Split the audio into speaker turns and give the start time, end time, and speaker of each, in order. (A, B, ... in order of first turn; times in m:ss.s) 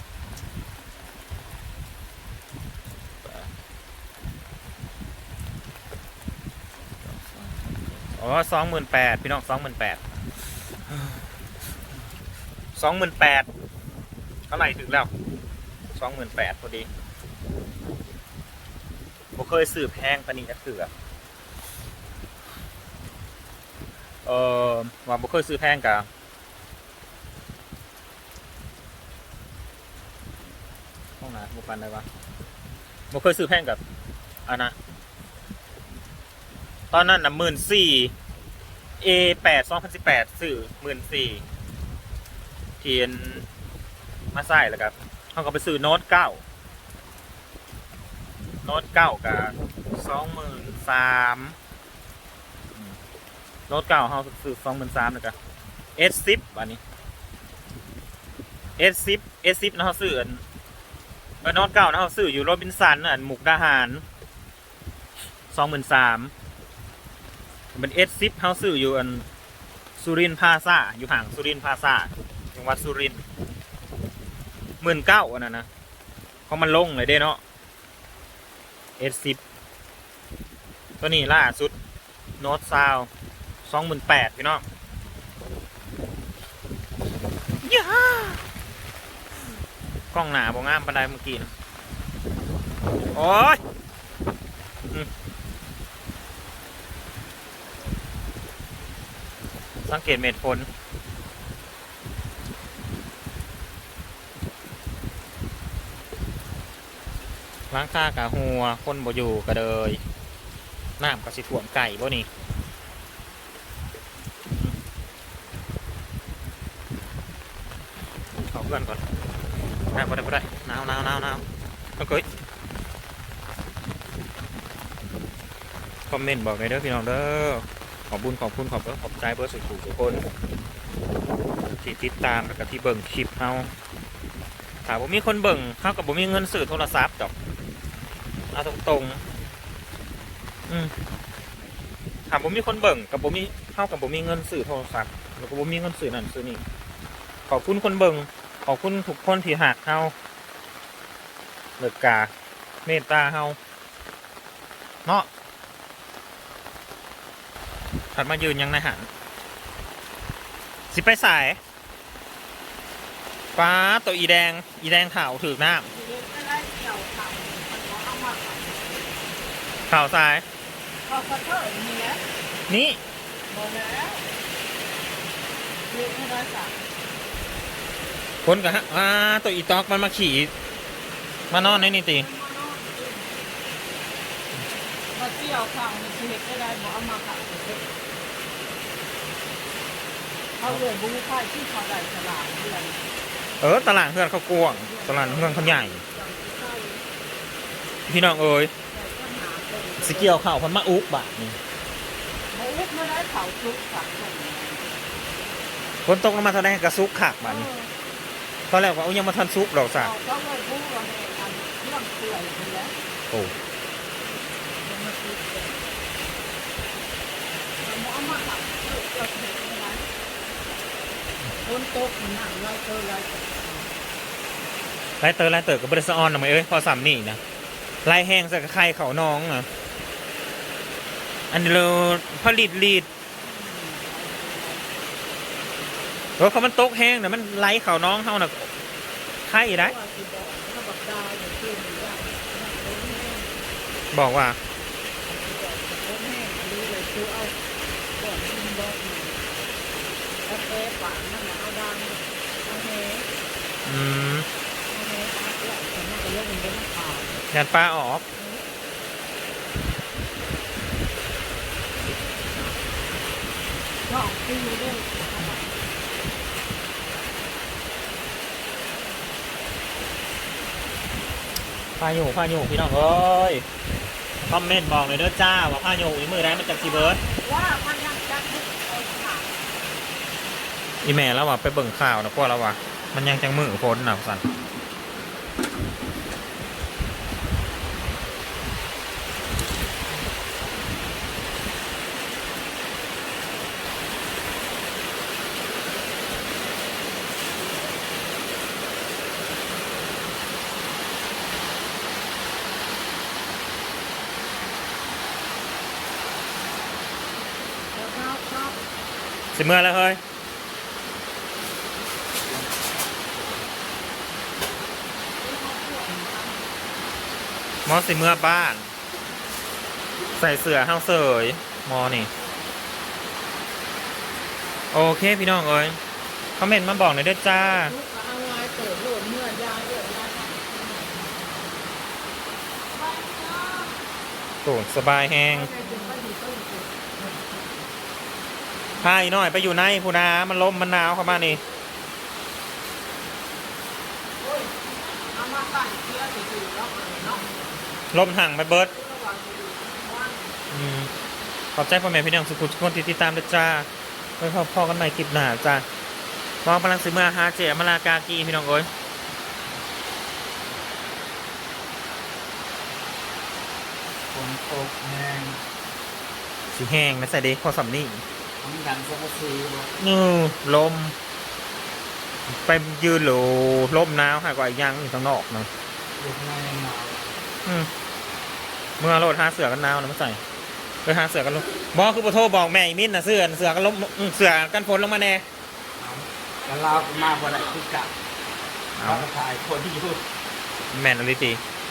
0:07.0-0:10.0 A
0:12.7-0:13.5 A
0:14.5-0:15.1 A
0:15.9-0:16.9 A
0:19.3-0:20.9 A
0:24.2-0:26.1 A
0:31.2-0:32.0 A
0:33.1-0:33.8 A
0:34.5-0:34.7 A
0:36.9-0:38.1 A
0:39.0-0:41.4 A
0:42.8-0:43.4 A
0:44.3-0:46.4 A
0:48.6-0:51.5 A
0:53.7-0:55.3 A
0:56.0-0:56.8 A
0:58.8-1:00.4 A
1:01.4-1:04.0 A
1:05.5-1:06.3 A
1:07.7-1:09.2 A
1:10.0-1:13.2 A
1:14.8-1:15.7 A
1:16.5-1:17.4 A
1:19.0-1:19.4 A
1:21.0-1:21.7 A
1:22.4-1:23.1 A
1:23.6-1:24.6 A
1:27.6-1:28.4 A
1:30.1-1:31.5 A
1:33.1-1:33.6 A
1:39.8-1:40.7 A
1:47.7-1:50.0 A
1:51.0-1:52.3 A
1:58.4-1:59.0 A
1:59.9-2:01.4 A
2:02.0-2:02.2 A
2:06.1-2:10.2 A
2:11.7-2:13.7 A
2:14.8-2:17.3 A
2:18.5-2:19.2 A
2:22.3-2:26.6 A
2:27.5-2:30.1 A
2:31.8-2:32.3 A
2:32.8-2:33.6 A
2:38.1-2:39.1 A
2:40.9-2:41.6 A
2:43.6-2:45.9 A
2:45.9-2:48.9 B
2:49.9-2:50.4 A
2:51.0-2:52.2 B
2:52.7-2:53.0 A
2:53.5-2:54.3 B
2:55.9-2:56.8 B
2:58.4-3:00.5 A
3:01.5-3:03.3 B
3:01.5-3:02.3 A
3:05.1-3:07.8 B
3:10.6-3:13.0 B
3:13.6-3:16.0 A
3:14.8-3:17.0 B
3:18.1-3:18.7 A
3:18.9-3:20.4 B
3:20.0-3:21.6 A
3:22.5-3:24.9 B
3:26.0-3:27.7 A
3:27.4-3:27.9 B
3:28.7-3:30.1 A
3:29.9-3:32.9 B
3:34.8-3:36.0 B
3:37.8-3:40.1 B
3:41.6-3:43.9 B
3:45.2-3:47.4 A
3:48.0-3:49.7 A
3:51.5-3:53.1 A
3:53.4-3:54.9 B
3:56.4-3:58.7 A
3:59.4-4:00.0 A
3:59.7-4:03.5 B
4:04.1-4:04.6 A
4:05.2-4:07.6 B
4:08.2-4:09.4 B
4:10.4-4:13.3 B
4:13.8-4:14.4 A
4:14.9-4:17.4 B
4:17.5-4:18.2 A
4:18.3-4:18.6 B
4:24.0-4:25.8 B
4:32.0-4:33.6 A
4:34.4-4:37.2 A
4:36.2-4:39.6 B
4:41.0-4:44.4 A
5:07.9-5:08.8 B
5:09.5-5:10.2 A
5:15.4-5:16.7 B
5:17.8-5:18.9 A
5:20.3-5:22.3 A
5:24.9-5:26.0 A
5:26.6-5:27.9 A
5:27.5-5:31.4 B
5:32.9-5:34.0 B
5:34.6-5:35.7 A
5:35.5-5:37.6 B
5:39.0-5:41.6 A
5:41.2-5:41.6 B
5:44.4-5:47.6 B
5:48.1-5:48.9 A
5:48.8-5:50.5 B
5:50.7-5:51.1 A
5:51.7-5:53.9 A
5:54.4-5:55.8 A
5:56.6-5:58.9 A
6:04.3-6:05.6 C
6:06.7-6:08.2 A
6:08.6-6:09.9 C
6:10.0-6:11.1 A
6:12.5-6:15.7 A
6:16.2-6:17.4 C
6:17.6-6:17.9 A
6:19.0-6:20.4 A
6:21.0-6:25.4 A
6:26.0-6:28.1 C
6:29.0-6:29.3 A
6:29.0-6:30.2 C
6:30.9-6:31.6 A